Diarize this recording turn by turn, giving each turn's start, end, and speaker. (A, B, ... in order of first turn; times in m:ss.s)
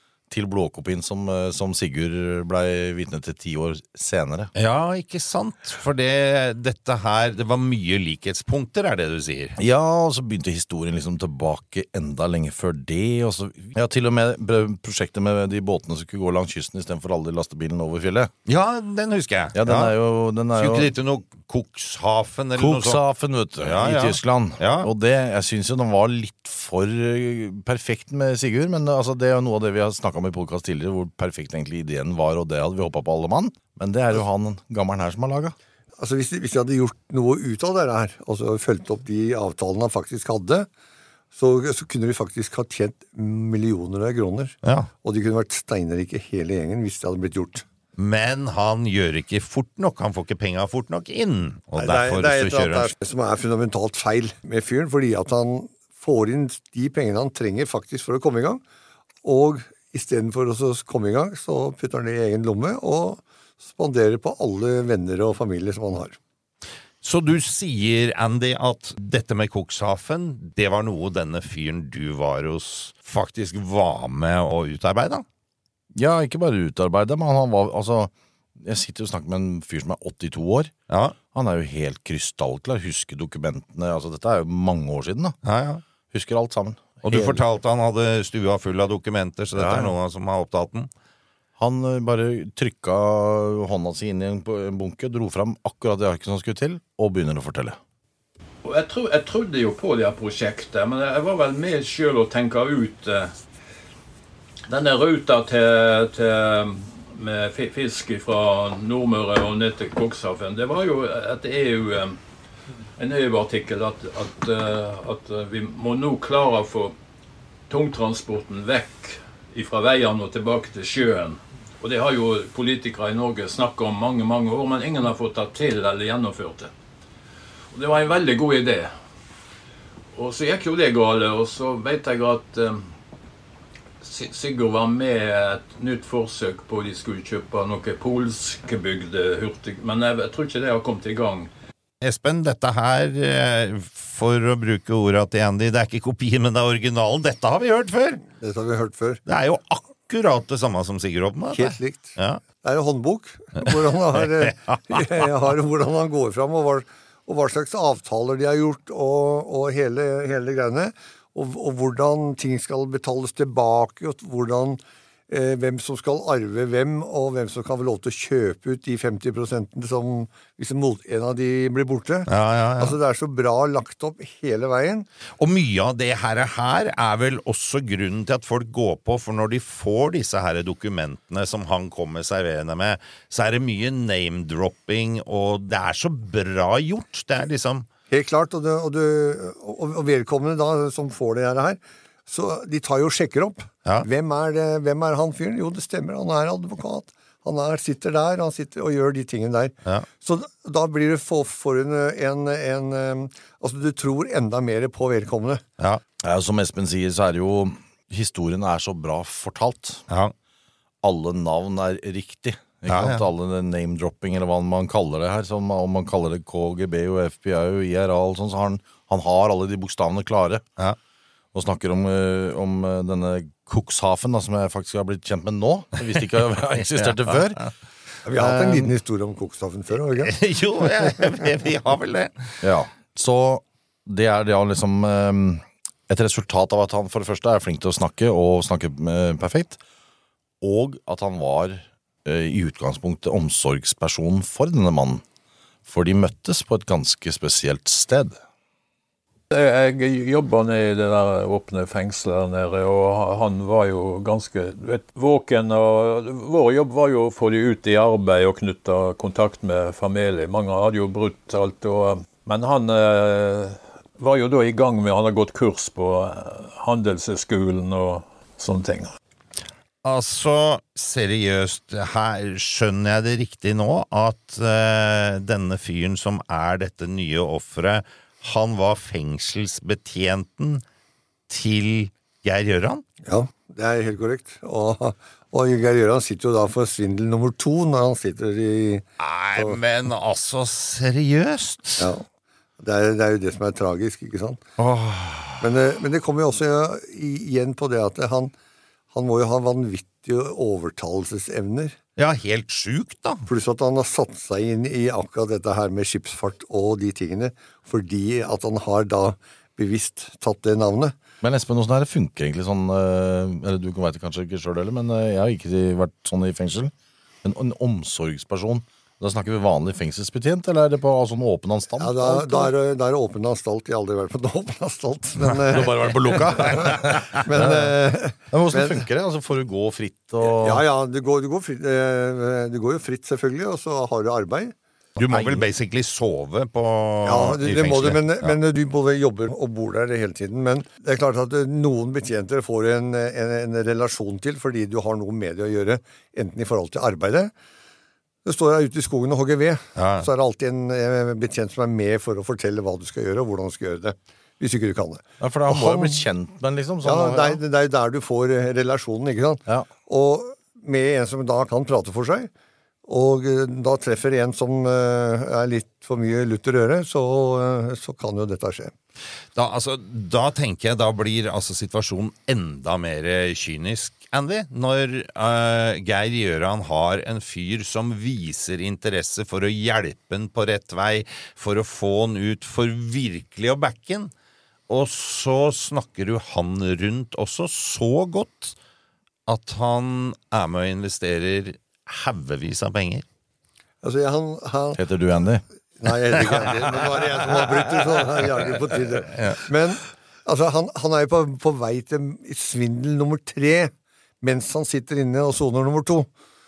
0:00.3-0:04.5 A
0:04.6-0:09.6 B
0:09.6-0:18.3 A
0:18.5-0:19.9 B
0:19.5-0:20.9 A
0:20.5-0:23.0 B
0:22.6-0:35.5 A
0:23.6-0:24.9 B
0:36.0-0:40.7 C
0:41.3-0:47.6 C
0:44.6-0:44.9 B
0:48.0-0:52.9 B
0:51.8-0:58.6 C
0:59.2-1:06.2 C
1:07.0-1:15.2 B
1:15.9-1:20.7 A
1:20.9-1:21.1 B
1:21.3-1:25.4 A
1:25.4-1:25.8 B
1:26.1-1:27.4 A
1:27.0-1:30.9 B
1:29.6-1:29.9 A
1:31.6-1:37.8 A
1:38.6-1:43.3 D
1:44.7-1:52.2 D
1:53.0-1:56.9 D
1:57.7-2:06.7 D
2:07.7-2:08.9 D
2:10.1-2:12.9 D
2:14.0-2:21.5 D
2:22.0-2:28.2 B
2:28.4-2:29.2 C
2:29.3-2:32.4 B
2:31.5-2:52.3 C
2:33.6-2:34.8 B
2:52.3-2:53.0 B
2:52.8-2:55.1 C
2:55.4-3:07.9 B
3:08.1-3:25.6 C
3:26.2-3:30.0 A
3:31.0-3:40.6 A
3:32.9-3:33.2 B
3:41.5-3:47.6 A
3:46.9-3:47.7 B
3:48.2-3:51.2 C
3:48.3-3:48.9 A
3:50.2-3:52.6 B
3:52.6-3:59.8 A
4:00.6-4:05.2 A
4:05.9-4:08.4 A
4:09.5-4:29.1 D
4:30.0-4:40.8 B
4:41.5-4:43.0 B
4:43.2-4:49.0 C
4:49.2-4:52.1 B
4:52.0-4:52.2 C
4:52.8-4:54.6 C
4:54.8-4:55.7 B
4:55.6-4:58.5 C
4:59.1-5:02.0 C
5:02.2-5:03.4 B
5:03.5-5:11.1 C
5:11.4-5:16.9 A
5:17.4-5:22.7 A
5:22.0-5:29.0 C
5:25.7-5:28.0 A
5:26.6-5:27.5 B
5:28.5-5:30.8 A
5:30.4-5:34.8 C
5:35.2-5:38.6 B
5:35.2-5:35.6 A
5:37.2-5:47.5 C
5:48.4-5:56.2 C
5:50.0-5:50.3 B
5:55.4-5:57.6 A
5:57.0-6:02.5 C
6:03.1-6:08.9 C
6:09.5-6:24.3 B
6:24.9-6:28.8 B
6:29.5-6:33.2 B
6:34.0-6:35.0 C
6:35.0-6:35.6 A
6:36.0-6:46.3 C
6:39.2-6:39.6 B